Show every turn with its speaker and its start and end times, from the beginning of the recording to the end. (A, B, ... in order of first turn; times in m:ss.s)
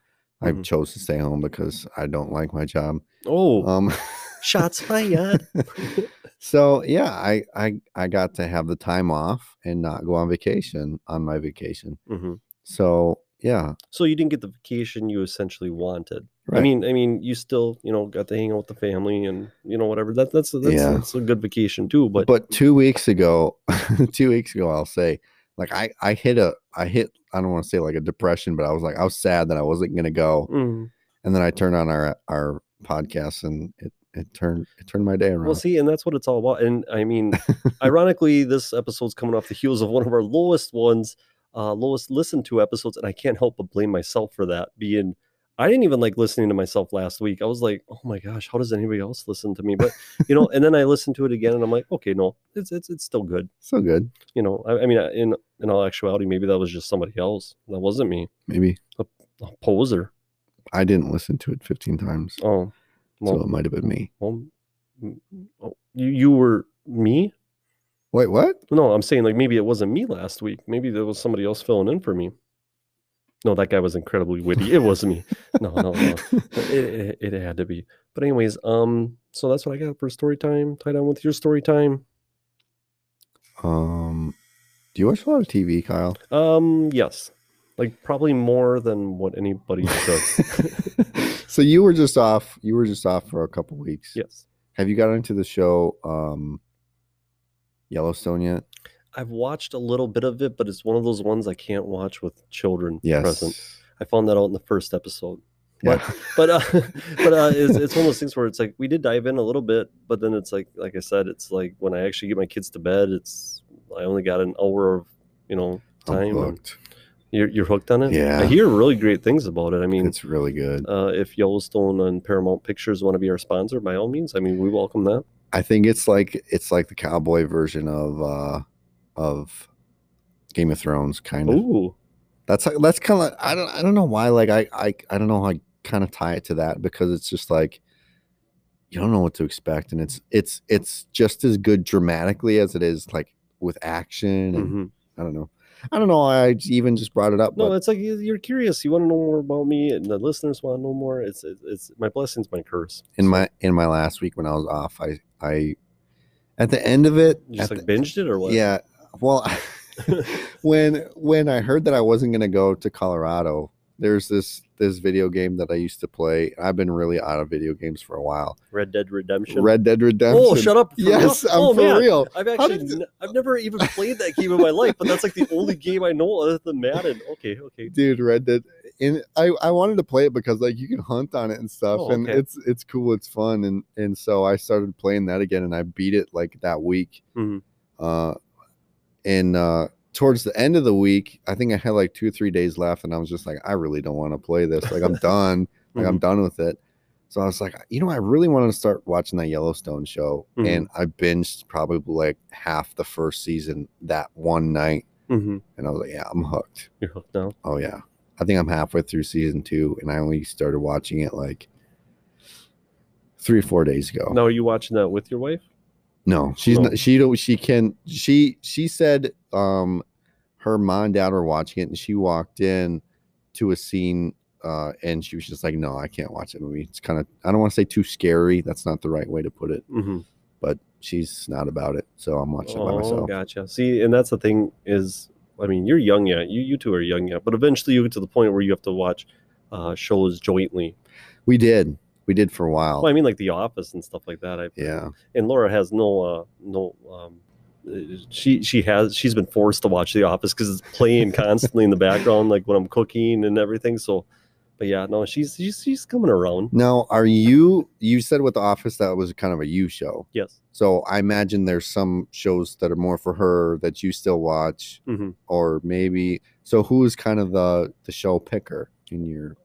0:00.4-0:03.0 A
0:03.2-0:03.7 B
0:03.6-0:04.7 A
0:04.4-0:06.1 B
0:05.3-0:05.6 A
0:06.4-0:12.0 A
0:12.1-0:12.4 B
0:12.6-0:13.8 A
0:13.9-0:22.3 B
0:20.6-0:21.1 A
0:22.2-0:30.5 A
0:30.5-0:30.9 B
0:31.2-0:35.6 A
0:35.4-0:53.5 B
0:53.6-0:54.1 A
0:54.3-0:58.3 B
0:58.5-0:58.8 A
0:59.0-1:00.1 B
1:00.7-1:02.4 A
1:02.4-1:03.5 B
1:03.3-1:04.1 A
1:04.2-1:04.5 B
1:05.0-1:07.3 B
1:08.1-1:08.6 A
1:08.7-1:12.3 B
1:13.4-1:22.0 B
1:23.6-1:24.4 A
1:25.0-1:26.2 A
1:26.3-1:30.9 B
1:31.0-1:34.2 A
1:34.2-1:34.5 B
1:34.8-1:36.6 A
1:37.9-1:38.6 A
1:39.1-1:56.6 B
1:43.0-1:43.7 A
1:45.8-1:46.4 A
1:56.0-1:56.8 A
1:57.3-2:00.2 B
1:58.1-1:58.6 A
2:00.0-2:00.9 A
2:00.8-2:05.2 B
2:05.5-2:08.6 A
2:09.2-2:09.7 A
2:10.5-2:11.6 A
2:11.5-2:12.0 B
2:12.5-2:17.8 A
2:18.9-2:27.8 A
2:24.6-2:24.9 B
2:27.6-2:33.4 B
2:33.2-2:35.8 A
2:36.6-2:37.9 A
2:37.5-2:38.6 B
2:38.4-2:48.6 A
2:40.0-2:40.3 B
2:48.7-2:49.7 B
2:49.5-2:53.0 A
2:50.3-2:57.9 B
2:54.9-2:55.4 A
2:57.9-3:07.2 A
3:01.9-3:02.4 B
3:07.4-3:07.6 B
3:08.0-3:08.4 A
3:09.2-3:16.8 A
3:15.9-3:16.2 B
3:17.3-3:25.1 A
3:20.6-3:20.9 B
3:25.3-3:25.6 B
3:25.8-3:26.9 A
3:27.0-3:27.6 B
3:27.6-3:31.7 A
3:33.4-3:34.4 A
3:34.3-3:35.6 B
3:36.3-3:40.0 A
3:36.6-3:37.0 B
3:40.6-3:43.0 A
3:43.5-3:49.8 A
3:49.9-3:50.2 B
3:50.6-3:53.3 A
3:52.6-4:01.0 B
4:01.5-4:03.1 A
4:03.0-4:14.3 B
4:04.8-4:05.1 A
4:14.8-4:16.7 B
4:16.7-4:29.6 A
4:25.1-4:25.4 B